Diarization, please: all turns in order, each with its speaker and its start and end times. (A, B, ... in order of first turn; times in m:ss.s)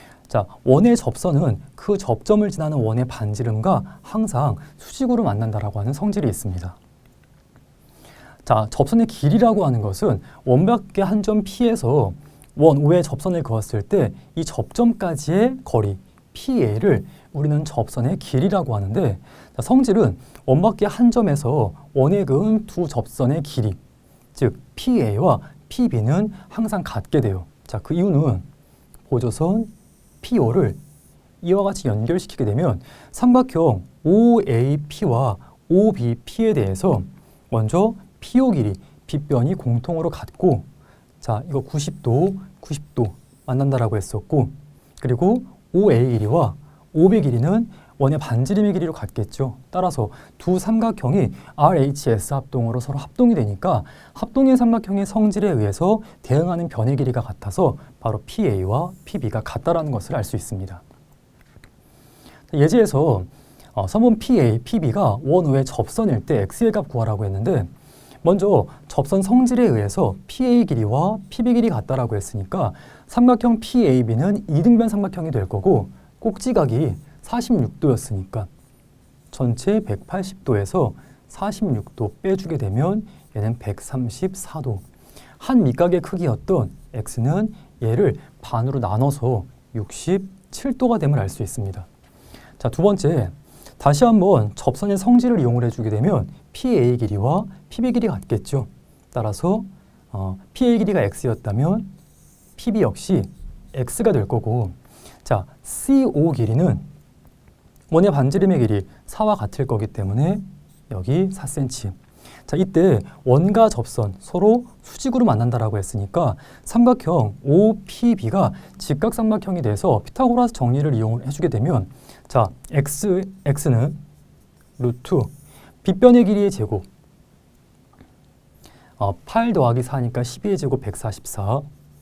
0:00.3-0:06.8 A
0:08.4-0:23.8 A
0:24.3-0:28.4 A
0:29.1-0:30.8 A
0:31.4-0:40.7 A
0:41.2-1:00.8 A
1:02.5-1:07.7 A
1:08.2-1:18.5 A
1:19.3-1:24.8 A
1:25.4-1:31.9 A
1:32.6-1:41.9 A
1:42.6-1:46.8 A
1:47.9-2:04.0 A
2:04.8-2:06.9 A
2:09.0-2:11.7 A